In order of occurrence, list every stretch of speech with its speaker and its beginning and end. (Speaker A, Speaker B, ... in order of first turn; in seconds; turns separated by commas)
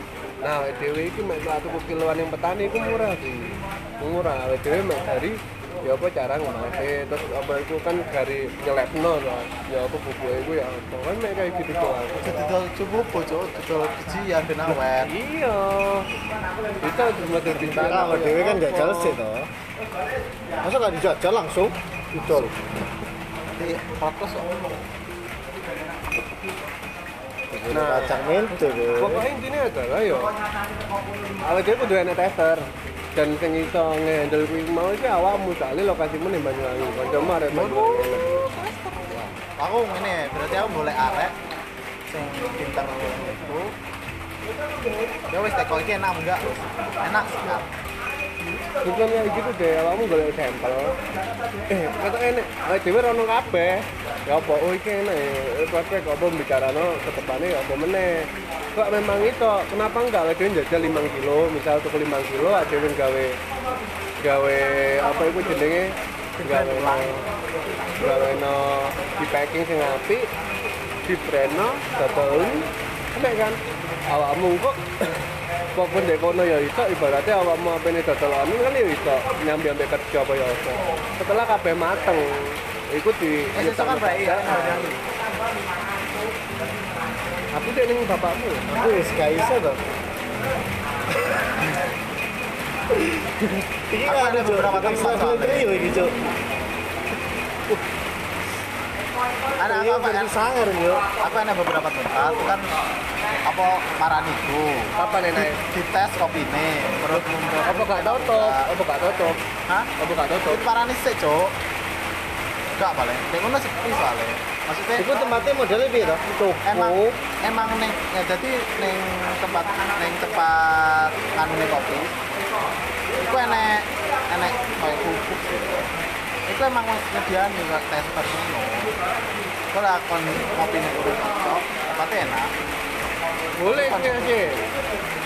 Speaker A: 0.4-12.3, Speaker B: 12.2-15.1, Speaker A: 14.9-16.1, Speaker A: 16.8-19.2, Speaker C: 17.5-19.5, Speaker C: 20.6-22.5, Speaker B: 22.2-22.5, Speaker B: 23.5-24.5, Speaker C: 27.5-29.2, Speaker A: 27.7-28.1, Speaker A: 29.0-30.3, Speaker A: 31.4-38.3, Speaker B: 37.4-41.3, Speaker B: 42.1-43.7, Speaker B: 45.3-47.7, Speaker A: 48.8-51.0, Speaker A: 51.7-63.4, Speaker A: 64.2-67.2, Speaker B: 66.4-67.2, Speaker A: 68.0-70.3, Speaker A: 71.0-74.8, Speaker A: 75.7-84.9, Speaker B: 83.5-85.0, Speaker A: 87.5-88.6, Speaker C: 88.7-89.8, Speaker C: 91.2-91.5, Speaker C: 92.9-96.1, Speaker B: 94.0-95.8, Speaker B: 99.6-100.4, Speaker C: 99.6-101.1, Speaker B: 101.1-102.8, Speaker B: 103.4-108.7, Speaker A: 104.9-105.6, Speaker A: 107.1-109.4, Speaker A: 110.0-110.6, Speaker B: 110.5-111.5, Speaker B: 112.7-115.1, Speaker C: 115.0-117.2, Speaker B: 116.6-122.2, Speaker B: 123.2-125.9, Speaker B: 126.5-128.9, Speaker B: 129.7-132.5, Speaker A: 133.6-134.6, Speaker B: 133.7-134.3